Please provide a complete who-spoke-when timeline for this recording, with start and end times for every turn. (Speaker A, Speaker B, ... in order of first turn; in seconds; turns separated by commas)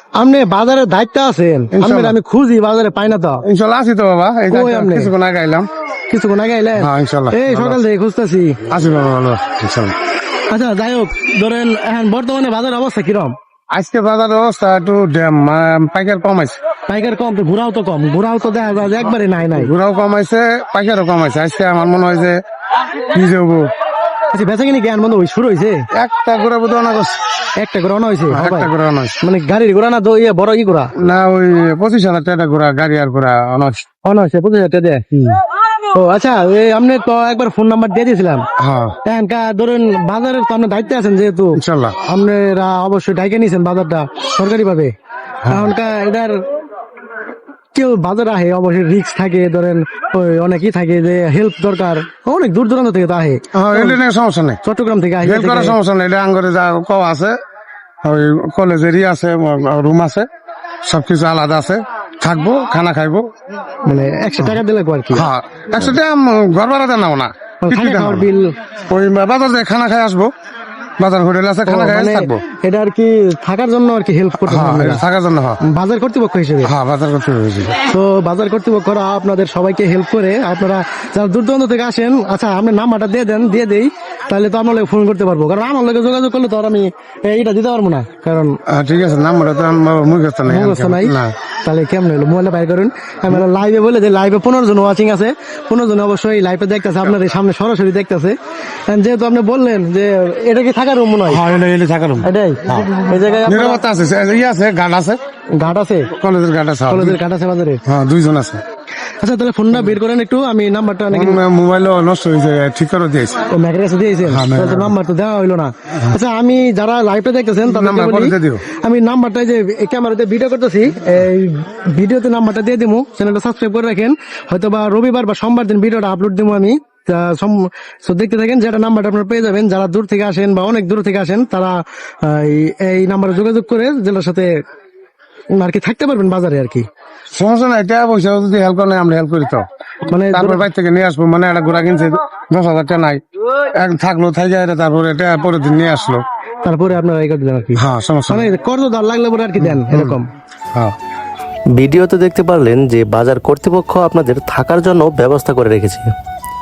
Speaker A: 0.1-3.4, Speaker B: 1.7-2.1, Speaker B: 3.4-5.7, Speaker A: 4.5-5.1, Speaker A: 6.1-8.6, Speaker B: 6.8-7.8, Speaker B: 8.7-9.9, Speaker A: 10.4-13.3, Speaker B: 13.7-16.6, Speaker A: 16.9-19.7, Speaker B: 19.5-22.4, Speaker B: 22.9-23.6, Speaker A: 24.3-25.8, Speaker B: 25.9-27.2, Speaker A: 27.6-28.7, Speaker B: 28.3-29.2, Speaker A: 29.2-30.9, Speaker B: 31.0-33.9, Speaker A: 34.0-35.0, Speaker B: 35.1-35.4, Speaker A: 35.9-38.4, Speaker B: 38.6-39.0, Speaker A: 39.0-44.9, Speaker B: 41.5-42.0, Speaker B: 45.4-45.7, Speaker A: 45.5-46.4, Speaker A: 47.7-54.0, Speaker B: 53.5-54.6, Speaker A: 54.6-55.8, Speaker B: 55.2-57.3, Speaker B: 58.0-60.3, Speaker B: 60.9-63.2, Speaker A: 63.8-65.2, Speaker B: 65.1-68.3, Speaker A: 67.6-68.5, Speaker B: 68.9-70.3, Speaker B: 71.0-72.4, Speaker A: 71.7-75.0, Speaker B: 74.4-75.6, Speaker A: 75.6-76.7, Speaker B: 76.6-77.7, Speaker A: 77.8-88.6, Speaker B: 88.7-91.3, Speaker A: 90.5-101.4, Speaker B: 101.3-102.9, Speaker A: 102.2-103.8, Speaker B: 103.4-105.2, Speaker A: 105.6-106.1, Speaker B: 106.1-107.2, Speaker A: 106.9-107.8, Speaker B: 107.8-108.6, Speaker A: 109.0-111.4, Speaker B: 111.1-113.5, Speaker A: 113.5-134.5, Speaker B: 114.2-114.9, Speaker B: 117.6-118.6, Speaker A: 135.6-136.9, Speaker B: 137.3-139.6, Speaker A: 140.1-140.6, Speaker B: 140.3-143.2, Speaker B: 143.8-146.2, Speaker A: 146.6-150.3, Speaker B: 147.8-148.5, Speaker B: 149.6-150.2, Speaker C: 151.8-156.1